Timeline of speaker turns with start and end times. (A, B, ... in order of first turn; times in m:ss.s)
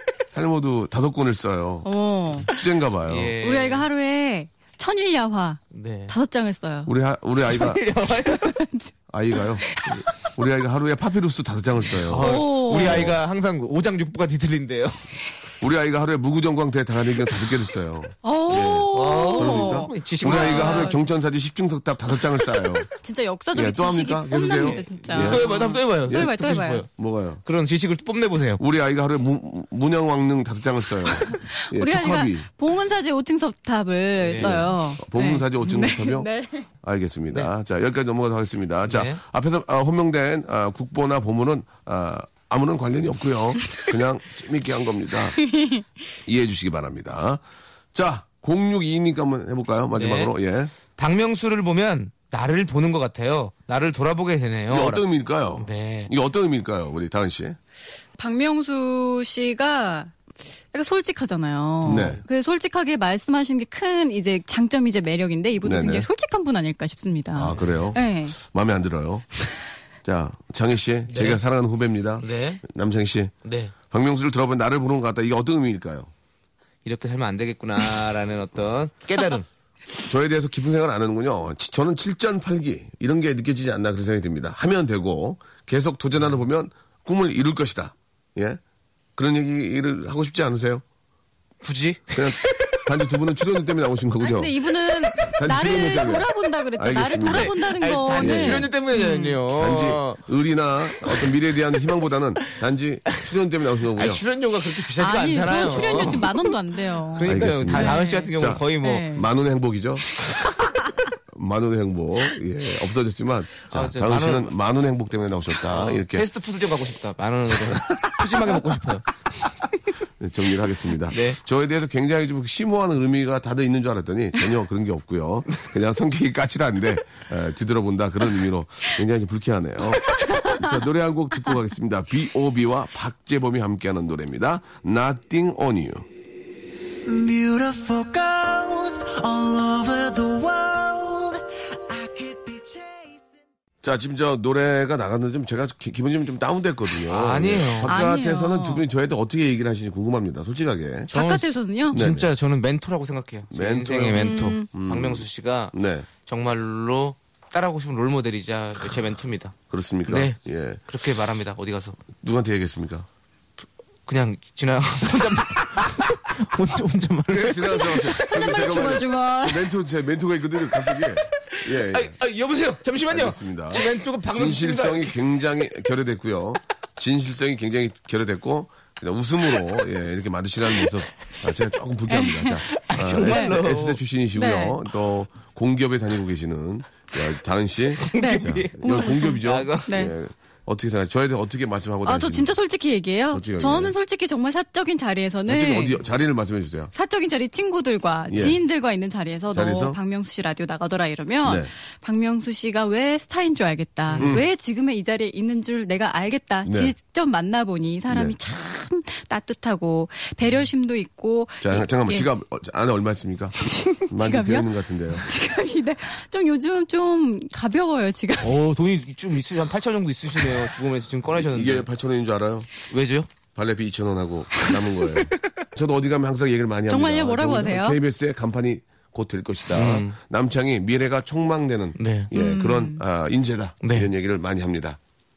0:00.3-0:01.9 A
0:01.8-0:02.5 B
0:02.4-0:03.4 A
0:03.0-0:03.9 C
0:03.4-0:06.9 B
0:05.7-0:06.1 C
0:06.8-0:07.8 A
0:07.4-0:08.6 C
0:08.3-0:08.9 B
0:09.1-0:13.2 A
0:09.6-0:10.1 B
0:12.0-0:15.0 C
0:12.2-0:13.1 B
0:15.6-0:22.9 A
0:18.2-0:21.0 B
0:18.9-0:21.0 C
0:23.0-0:26.8 B
0:23.5-0:25.5 A
0:24.6-0:26.9 C
0:26.1-0:26.3 A
0:26.9-0:27.4 A
0:27.4-0:28.6 C
0:28.6-0:32.5 A
0:31.3-0:36.7 B
0:34.2-0:34.6 C
0:34.3-0:45.4 A
0:38.9-0:39.2 C
0:45.4-0:45.8 B
0:46.2-0:47.4 A
0:47.9-0:50.7 A
0:49.9-0:50.3 C
0:51.0-0:55.0 C
0:54.7-0:57.6 A
0:55.6-0:56.1 C
0:58.2-1:00.1 B
1:00.7-1:08.4 B
1:01.8-1:02.2 C
1:01.8-1:02.2 A
1:05.6-1:06.1 A
1:07.4-1:09.2 A
1:07.5-1:07.9 C
1:10.0-1:13.3 A
1:11.1-1:11.4 C
1:12.2-1:12.6 C
1:13.4-1:13.7 C
1:13.9-1:16.1 A
1:16.8-1:19.4 C
1:20.0-1:28.6 A
1:29.2-1:30.8 A
1:31.6-1:32.8 C
1:32.1-1:34.5 A
1:34.2-1:39.4 B
1:35.2-1:37.5 A
1:37.2-1:40.2 C
1:38.1-1:38.7 A
1:39.5-1:44.2 A
1:40.9-1:41.3 C
1:43.9-1:46.5 C
1:45.0-1:49.3 B
1:47.1-1:49.1 C
1:47.2-1:50.1 A
1:51.3-1:56.2 A
1:53.7-1:54.5 C
1:55.6-1:59.5 C
2:00.2-2:16.1 A
2:01.1-2:01.4 C
2:10.2-2:10.7 B
2:17.0-2:23.4 D
2:23.8-2:31.1 A
2:27.1-2:28.0 C
2:27.8-2:28.8 B
2:31.1-2:32.0 B
2:31.1-2:42.0 C
2:31.9-2:32.3 A
2:33.5-2:36.1 A
2:34.1-2:34.7 B
2:39.7-2:40.8 A
2:42.2-2:43.1 A
2:44.1-2:48.3 C
2:47.3-2:52.2 A
2:47.7-2:49.7 B
2:51.5-2:55.2 C
2:53.1-3:12.5 A
3:02.1-3:03.5 B
3:02.7-3:04.0 C
3:04.4-3:04.8 B
3:08.0-3:10.0 C
3:08.1-3:10.1 B
3:12.0-3:16.0 B
3:13.3-3:13.9 A
3:15.4-3:16.9 A
3:16.9-3:32.2 B
3:18.3-3:18.6 A
3:19.5-3:20.0 A
3:21.4-3:21.7 A
3:24.1-3:24.4 C
3:24.2-3:24.4 A
3:26.6-3:26.9 A
3:28.1-3:28.4 A
3:31.6-3:33.5 A
3:33.6-3:38.5 B
3:34.1-3:35.3 A
3:38.4-3:41.9 C
3:41.3-3:42.7 A
3:42.8-3:43.3 C
3:43.5-3:55.0 A
3:46.9-3:48.0 B
3:49.7-3:50.1 C
3:52.0-3:52.3 C
3:52.3-3:53.0 B
3:53.8-3:54.1 C